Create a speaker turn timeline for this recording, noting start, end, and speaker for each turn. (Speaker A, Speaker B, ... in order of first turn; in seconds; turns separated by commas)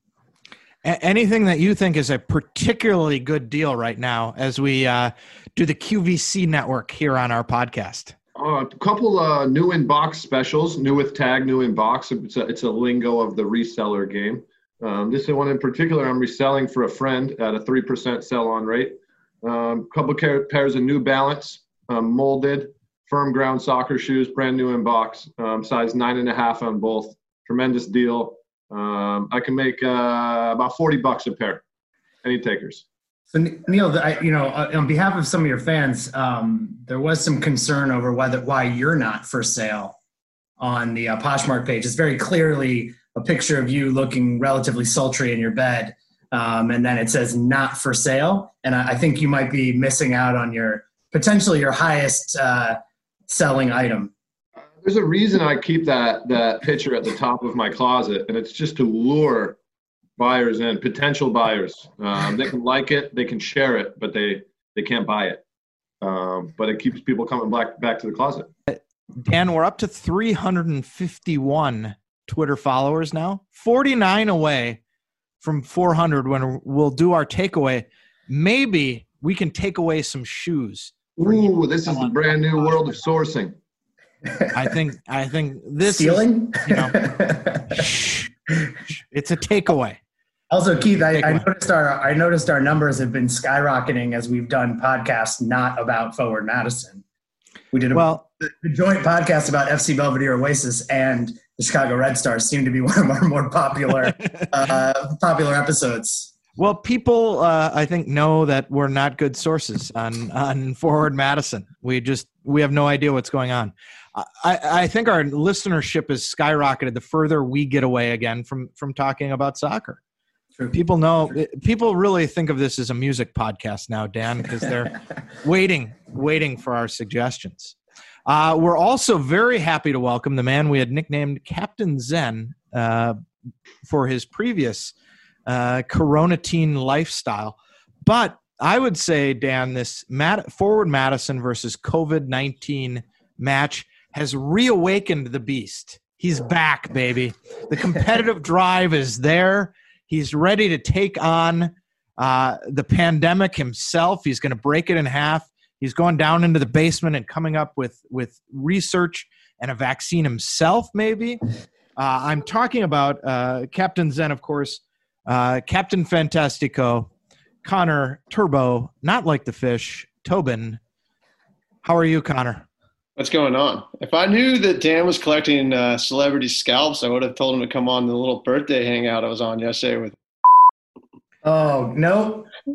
Speaker A: 0.8-8.1, Speaker B: 8.3-31.6, Speaker B: 32.2-32.8, Speaker C: 33.3-40.0, Speaker C: 40.6-54.1, Speaker B: 54.7-59.6, Speaker B: 60.2-65.4, Speaker B: 66.0-68.5, Speaker A: 68.7-74.8, Speaker A: 75.4-81.5, Speaker B: 81.2-83.5, Speaker C: 84.2-84.5, Speaker A: 84.5-87.0, Speaker C: 85.8-87.8, Speaker A: 87.7-90.0, Speaker C: 90.5-97.0, Speaker A: 91.1-91.5, Speaker C: 97.7-106.3, Speaker A: 97.9-98.2, Speaker A: 106.6-120.0, Speaker A: 120.7-127.7, Speaker A: 128.3-133.2, Speaker A: 133.8-134.9, Speaker A: 135.4-161.4, Speaker A: 161.9-167.1, Speaker A: 167.6-170.8, Speaker A: 171.8-172.7, Speaker D: 173.2-180.1, Speaker C: 181.4-182.5